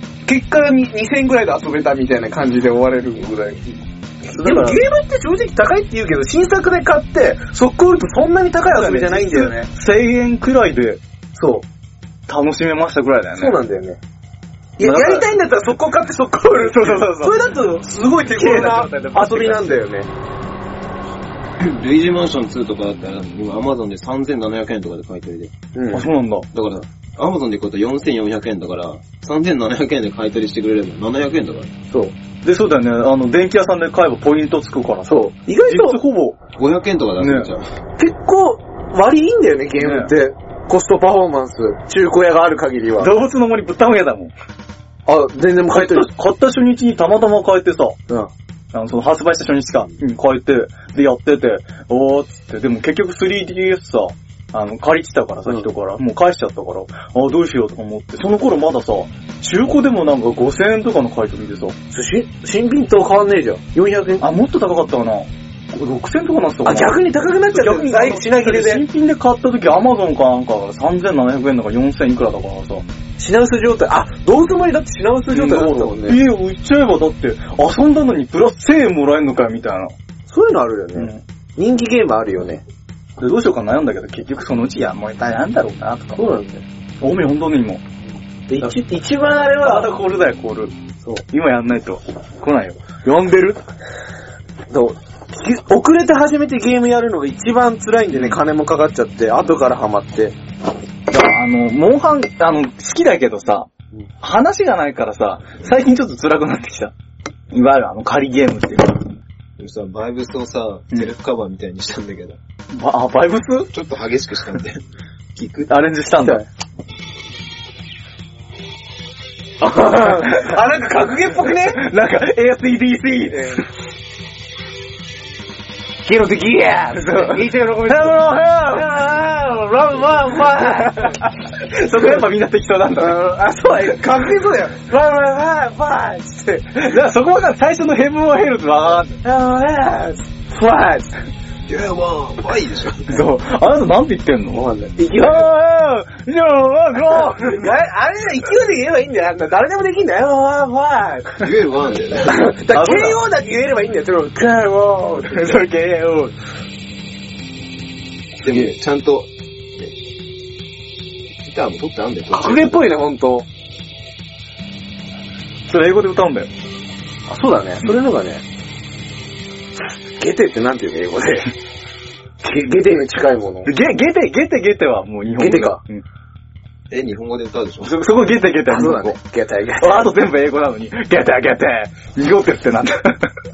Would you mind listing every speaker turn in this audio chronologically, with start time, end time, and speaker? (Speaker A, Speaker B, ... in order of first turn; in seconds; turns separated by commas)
Speaker A: 0.3-9.7, Speaker B: 4.3-4.8, Speaker B: 8.7-11.0, Speaker A: 11.3-11.6, Speaker B: 12.3-13.6, Speaker A: 13.4-14.0, Speaker A: 14.8-20.1, Speaker B: 14.8-15.3, Speaker B: 16.5-17.5, Speaker B: 18.2-19.8, Speaker C: 21.6-25.5, Speaker A: 25.7-26.1, Speaker B: 25.9-26.5, Speaker C: 26.5-31.7, Speaker B: 32.4-36.4, Speaker A: 35.1-36.0, Speaker C: 36.6-37.7, Speaker B: 37.2-37.5, Speaker A: 38.0-43.1, Speaker B: 39.8-40.1, Speaker B: 43.0-44.3, Speaker A: 45.1-46.1, Speaker B: 45.7-48.0, Speaker B: 48.7-61.8, Speaker A: 61.9-64.3, Speaker B: 64.2-72.8, Speaker A: 66.7-68.8, Speaker A: 73.2-76.2, Speaker B: 75.3-80.0, Speaker A: 80.3-82.6, Speaker B: 81.0-81.2, Speaker B: 83.2-86.3, Speaker A: 86.2-86.6, Speaker B: 87.0-87.8, Speaker A: 88.1-89.9, Speaker B: 88.6-90.7, Speaker B: 91.3-93.6, Speaker A: 94.7-100.3, Speaker B: 98.1-98.4, Speaker B: 101.1-103.7, Speaker B: 104.2-106.9, Speaker B: 107.5-109.2, Speaker C: 109.6-112.4, Speaker B: 112.7-113.7, Speaker C: 113.7-114.8, Speaker C: 115.4-115.7, Speaker B: 115.7-116.4, Speaker A: 119.6-121.8, Speaker B: 119.7-120.6, Speaker B: 121.4-123.7, Speaker A: 123.3-123.6, Speaker A: 126.0-131.3, Speaker B: 126.9-128.9, Speaker B: 130.2-133.4, Speaker A: 133.0-136.8, Speaker B: 136.8-139.2, Speaker A: 139.2-141.1, Speaker C: 141.7-143.2, Speaker B: 143.1-147.7, Speaker A: 144.5-145.5, Speaker A: 147.3-151.4, Speaker C: 151.4-152.5, Speaker A: 152.3-155.6, Speaker B: 152.7-153.2, Speaker B: 154.4-156.3, Speaker C: 158.4-159.9, Speaker C: 161.4-162.9, Speaker A: 162.3-163.5, Speaker B: 165.7-166.5, Speaker A: 167.3-168.4, Speaker A: 170.2-171.5, Speaker A: 172.4-173.7, Speaker B: 173.7-176.0, Speaker A: 175.4-175.8, Speaker C: 176.9-178.0, Speaker B: 177.8-179.2, Speaker A: 178.7-180.3, Speaker B: 179.8-183.3